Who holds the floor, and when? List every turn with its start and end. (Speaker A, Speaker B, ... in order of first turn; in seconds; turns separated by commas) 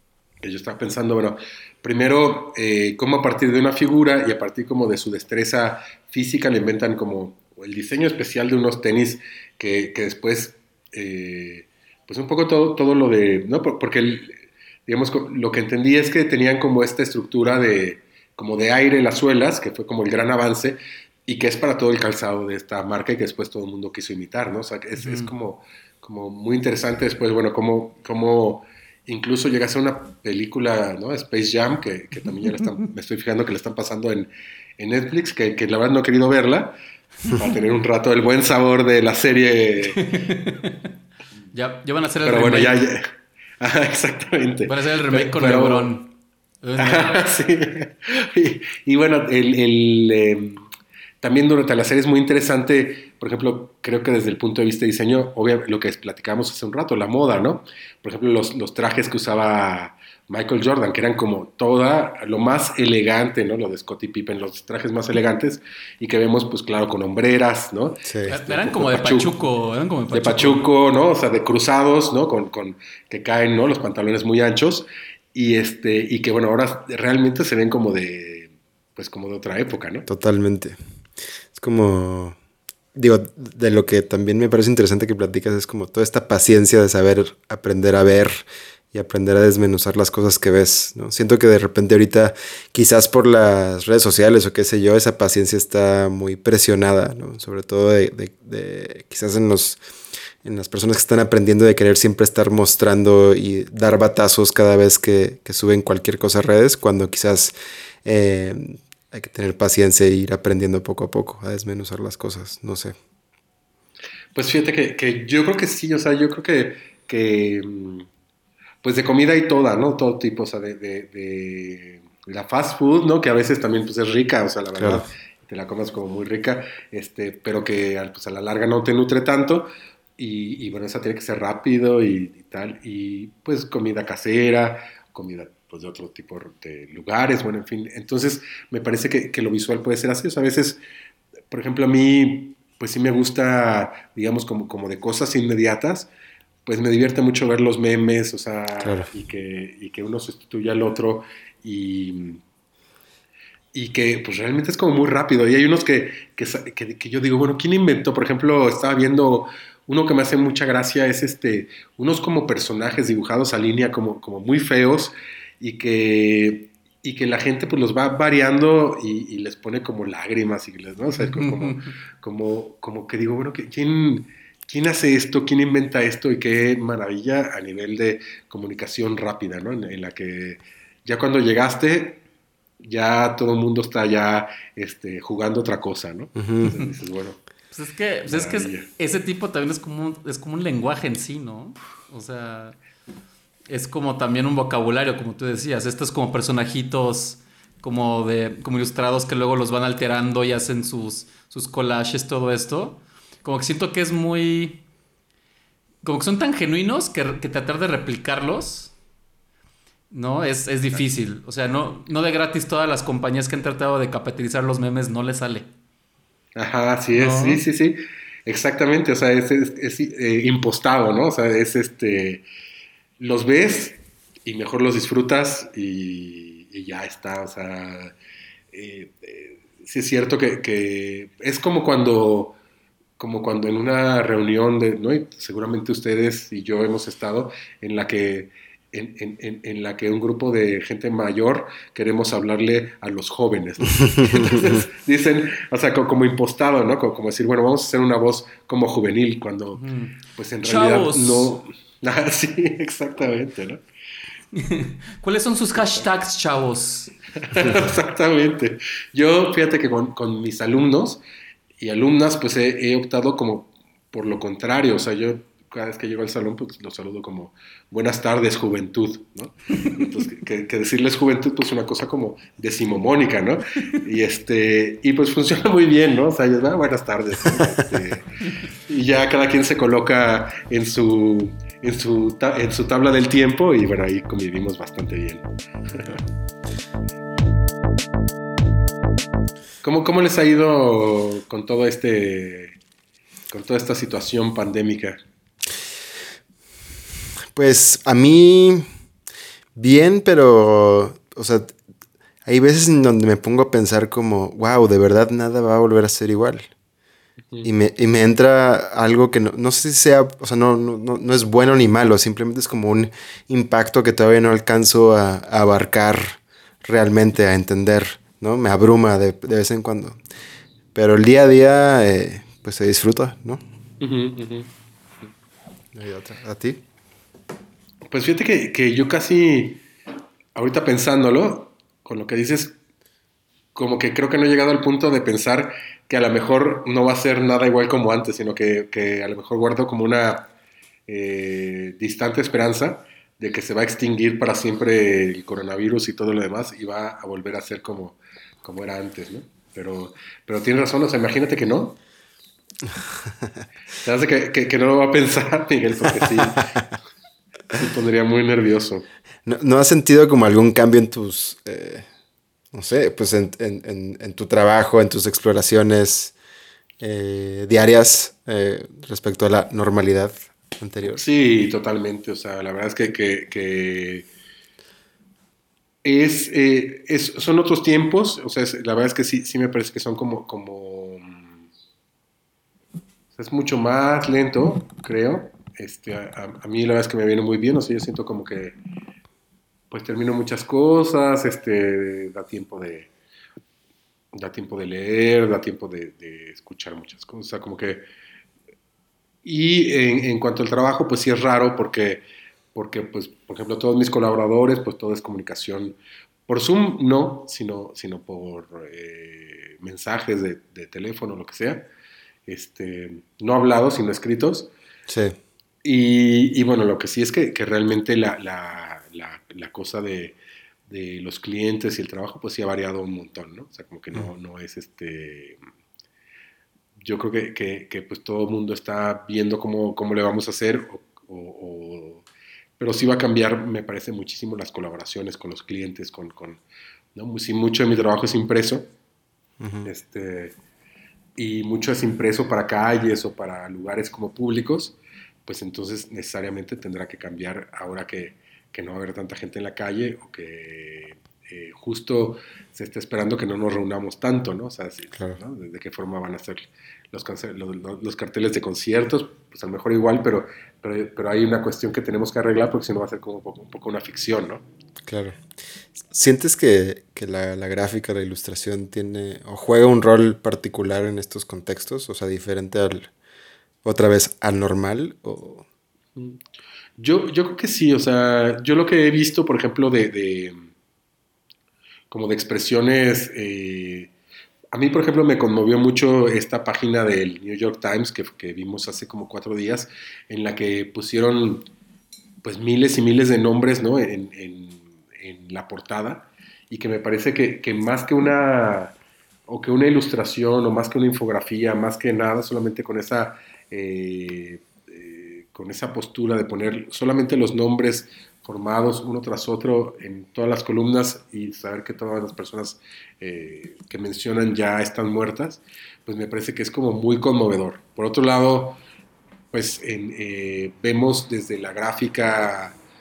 Speaker A: 0.4-36.8, Speaker B: 25.0-25.3, Speaker A: 37.3-40.1, Speaker B: 39.9-40.9, Speaker B: 41.5-42.8, Speaker A: 42.2-43.1, Speaker A: 43.6-45.9, Speaker B: 44.6-47.3, Speaker A: 46.8-50.6, Speaker A: 51.2-69.3, Speaker C: 68.0-68.3, Speaker B: 68.2-70.7, Speaker A: 70.1-80.1, Speaker C: 80.1-80.8, Speaker C: 81.5-82.4, Speaker C: 82.9-99.8, Speaker C: 100.4-107.5, Speaker C: 108.0-113.0, Speaker A: 114.3-118.1, Speaker A: 118.8-140.8, Speaker C: 124.8-125.0, Speaker A: 141.5-146.1, Speaker A: 146.7-152.4, Speaker C: 148.8-149.1, Speaker A: 153.7-182.2, Speaker B: 171.2-171.9, Speaker A: 182.8-187.4, Speaker C: 186.4-186.7, Speaker B: 187.7-192.8, Speaker A: 188.3-188.9, Speaker B: 193.7-204.8, Speaker B: 206.0-208.9, Speaker B: 210.1-215.7, Speaker A: 216.6-222.4, Speaker B: 217.1-217.6, Speaker A: 223.2-228.1, Speaker A: 228.7-232.6, Speaker A: 233.2-249.8, Speaker B: 249.8-251.6, Speaker A: 250.3-253.8, Speaker B: 254.5-257.1, Speaker A: 257.4-261.2, Speaker A: 261.8-278.2, Speaker B: 269.8-270.0, Speaker A: 278.9-286.2, Speaker A: 289.8-292.7, Speaker A: 293.5-295.2, Speaker C: 297.5-298.9, Speaker C: 299.8-301.7, Speaker C: 302.4-306.7, Speaker C: 307.6-320.2, Speaker C: 320.9-323.6, Speaker A: 324.0-324.7, Speaker C: 325.9-326.8, Speaker A: 328.1-329.8, Speaker A: 330.5-332.8, Speaker A: 333.7-340.5, Speaker A: 341.1-352.0, Speaker A: 354.0-356.9, Speaker A: 357.7-359.1, Speaker C: 359.4-362.1, Speaker C: 362.7-366.3, Speaker C: 367.0-371.2, Speaker A: 371.0-374.3, Speaker A: 376.0-381.4, Speaker A: 383.3-388.8, Speaker A: 389.9-393.1, Speaker A: 394.3-398.1, Speaker A: 399.4-411.9, Speaker A: 412.5-414.7, Speaker C: 415.1-415.4, Speaker A: 415.8-420.4, Speaker A: 420.9-425.6, Speaker A: 427.0-432.2, Speaker A: 432.8-436.6, Speaker A: 437.1-438.9, Speaker C: 439.6-439.9, Speaker A: 439.8-440.6, Speaker A: 441.4-464.6, Speaker C: 465.0-465.4, Speaker C: 466.0-473.1, Speaker C: 473.8-475.6, Speaker A: 477.0-480.7, Speaker A: 482.1-484.1, Speaker A: 484.7-491.7, Speaker A: 492.4-498.9, Speaker A: 499.5-518.8, Speaker A: 519.5-522.8